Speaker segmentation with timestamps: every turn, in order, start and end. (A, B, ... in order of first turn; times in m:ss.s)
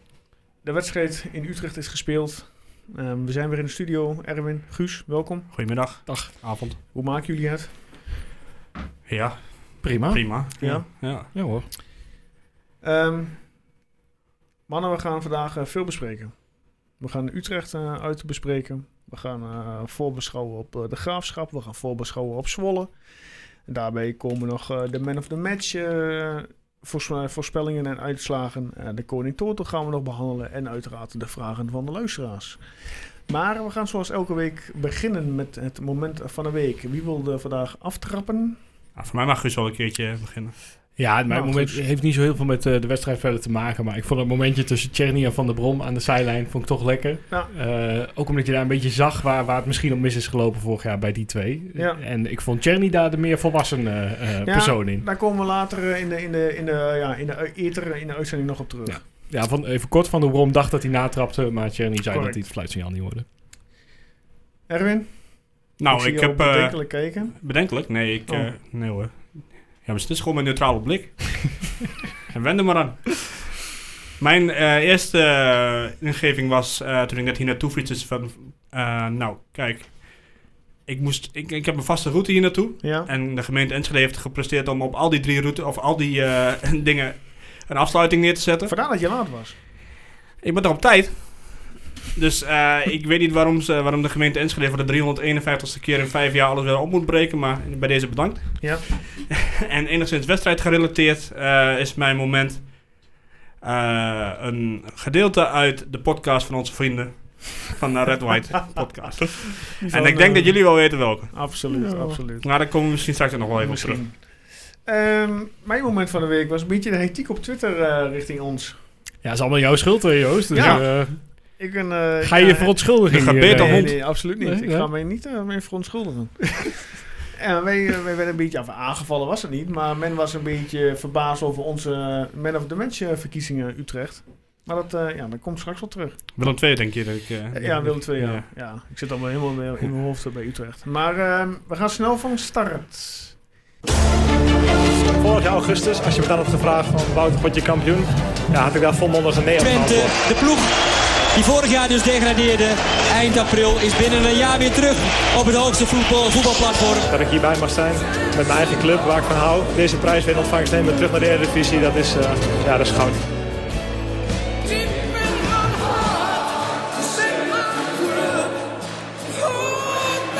0:00.6-0:05.5 A
0:05.5-0:06.8 B
0:06.1-0:06.3 C
0:06.9-0:07.7 A
0:09.1-0:11.3 B
0:09.8-0:10.6 C
0:10.6-0:10.9 A
0:11.3-0:11.7 C
0:12.8-0:13.4 A
0:14.7-0:16.4 A
0:17.0-0:22.9 A
0:23.6-0:32.6 A
0:33.3-0:38.6 A
0:39.0-0:40.5 B
0:41.0-0:55.0 C
0:41.3-0:41.8 A
0:54.4-0:59.0 A
0:58.8-1:03.2 C
1:02.1-1:02.4 A
1:04.7-1:05.2 A
1:05.8-1:07.4 A
1:05.8-1:13.6 B
1:14.2-1:28.7 B
1:22.8-1:23.1 A
1:28.7-1:29.5 A
1:30.4-1:43.1 B
1:43.6-1:51.5 B
1:49.7-1:52.5 A
1:51.7-1:52.2 C
1:52.4-1:54.0 B
1:53.6-1:54.2 A
1:54.8-1:58.8 A
1:59.2-2:01.2 C
2:00.5-2:02.9 A
2:00.6-2:00.8 B
2:02.2-2:04.9 C
2:03.1-2:03.9 B
2:03.4-2:16.6 A
2:16.4-2:18.4 B
2:17.5-2:23.3 A
2:25.1-2:30.2 D
2:29.6-2:30.7 E
2:31.3-2:37.1 E
2:37.1-2:43.2 D